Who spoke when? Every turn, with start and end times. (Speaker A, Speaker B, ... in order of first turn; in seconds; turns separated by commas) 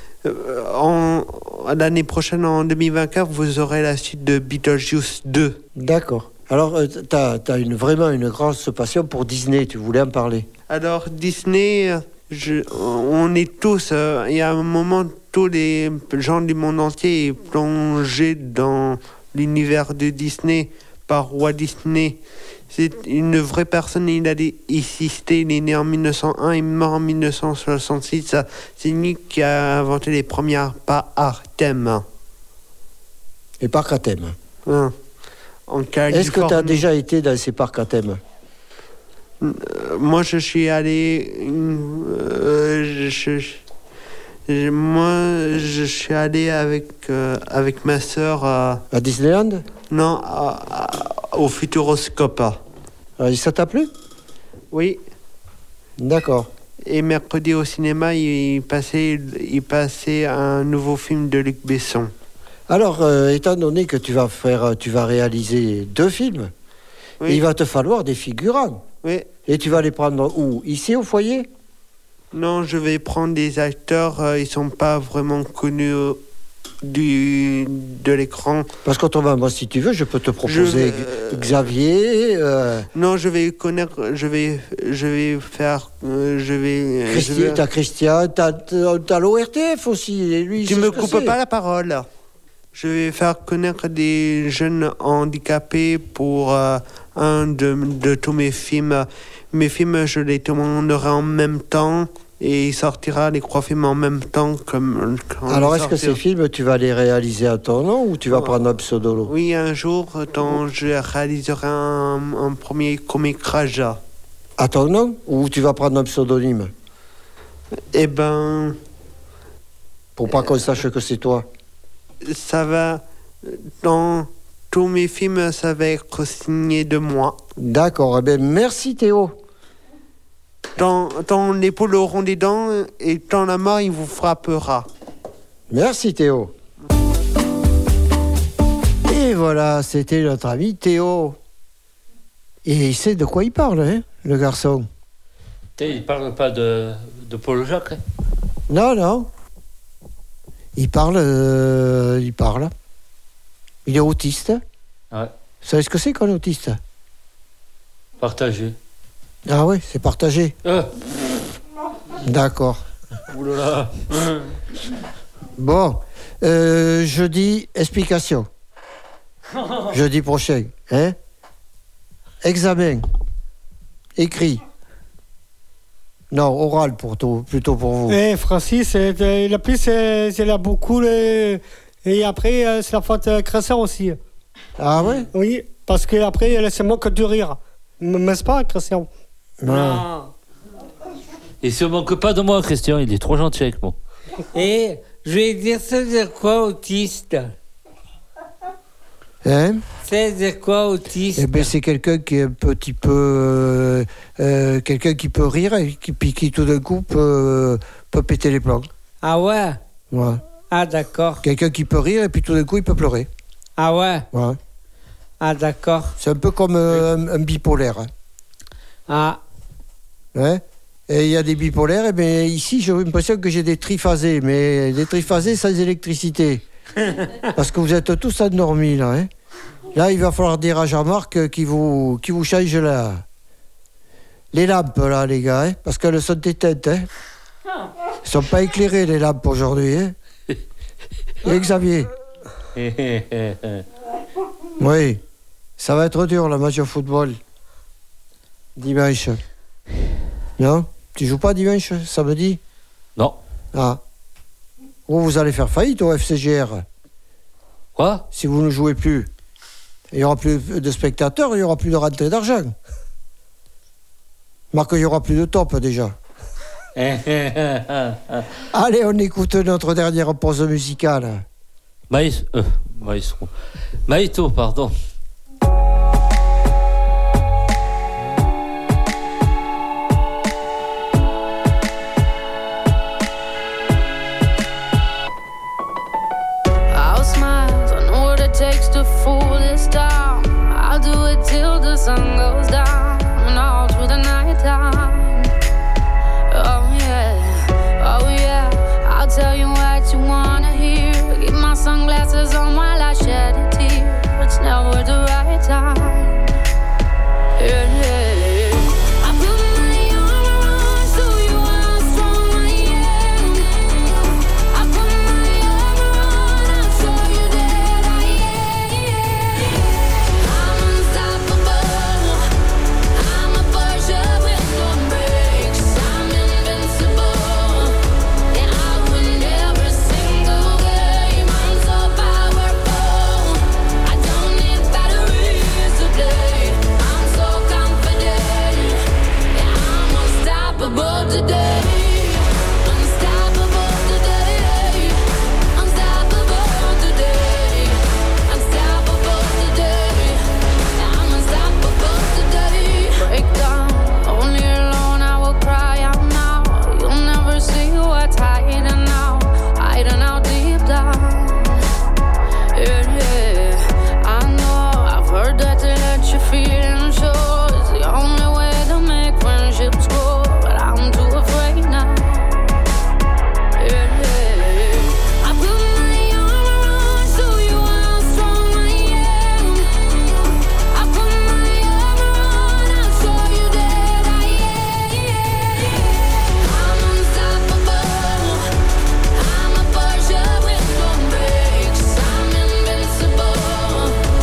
Speaker A: 0.2-5.6, Speaker B: 5.8-10.5, Speaker A: 10.7-22.2, Speaker A: 22.7-32.0, Speaker B: 33.6-34.3, Speaker A: 34.6-34.9, Speaker A: 35.7-36.8, Speaker B: 36.1-38.2, Speaker A: 39.4-43.6, Speaker A: 44.5-48.8, Speaker B: 48.9-49.6, Speaker A: 49.9-52.6, Speaker B: 53.2-53.9, Speaker A: 54.7-55.0, Speaker B: 56.0-56.5, Speaker A: 56.9-62.1, Speaker B: 62.7-66.5, Speaker B: 67.3-68.8, Speaker A: 69.0-69.3, Speaker B: 69.5-71.5, Speaker A: 72.3-76.2, Speaker A: 76.8-78.7, Speaker B: 78.8-82.9, Speaker A: 80.4-81.5, Speaker A: 82.9-87.6, Speaker B: 87.1-91.4, Speaker A: 90.6-92.0, Speaker A: 92.7-106.2, Speaker B: 105.5-109.3, Speaker A: 108.3-108.6, Speaker A: 109.2-114.0, Speaker B: 114.6-116.7, Speaker A: 117.9-118.8, Speaker B: 120.2-121.5, Speaker A: 122.2-127.4, Speaker B: 127.6-129.3, Speaker A: 130.8-134.8, Speaker B: 135.7-136.5, Speaker B: 139.0-141.4, Speaker B: 142.6-144.9, Speaker C: 145.8-148.0, Speaker B: 148.7-149.3, Speaker B: 150.8-152.7, Speaker B: 153.8-154.6, Speaker B: 155.6-156.8, Speaker C: 158.2-158.8, Speaker B: 159.5-160.5, Speaker B: 162.2-162.8, Speaker C: 163.3-164.2, Speaker B: 165.6-168.5, Speaker B: 169.9-171.2, Speaker B: 172.4-173.1, Speaker B: 174.2-174.6, Speaker B: 176.3-178.2, Speaker D: 178.1-184.2, Speaker B: 184.8-185.3, Speaker D: 185.3-189.1, Speaker B: 189.6-190.0, Speaker E: 189.7-190.3, Speaker C: 191.6-193.9, Speaker E: 194.5-197.5, Speaker B: 199.4-199.8, Speaker E: 200.0-201.7, Speaker B: 201.3-208.9, Speaker E: 209.2-209.8, Speaker B: 210.1-210.4, Speaker E: 210.7-211.4, Speaker B: 211.4-213.3, Speaker E: 213.8-214.3, Speaker B: 214.3-214.6, Speaker E: 215.4-216.1, Speaker B: 216.2-218.1, Speaker E: 219.1-219.4, Speaker B: 220.3-226.6, Speaker E: 227.0-227.5, Speaker B: 227.5-229.3, Speaker B: 229.9-233.2, Speaker B: 234.5-237.1, Speaker B: 238.2-240.1, Speaker B: 241.4-242.1, Speaker C: 242.8-243.8, Speaker B: 244.8-245.2, Speaker B: 245.8-247.4, Speaker B: 248.8-249.4, Speaker B: 250.6-252.6, Speaker B: 253.7-254.0, Speaker B: 255.1-256.8, Speaker C: 257.9-258.2, Speaker B: 258.3-259.3, Speaker B: 260.1-262.7, Speaker B: 264.7-266.1, Speaker C: 266.9-268.4, Speaker B: 268.7-271.4, Speaker C: 272.1-273.5, Speaker C: 274.1-274.9, Speaker F: 286.9-295.5, Speaker F: 296.5-306.5, Speaker F: 307.6-313.7, Speaker F: 314.7-322.4, Speaker F: 323.1-328.0, Speaker F: 328.5-345.2, Speaker F: 345.7-350.4, Speaker F: 350.9-361.8, Speaker F: 362.7-372.6, Speaker F: 373.8-379.9, Speaker F: 380.9-388.7, Speaker F: 389.3-394.2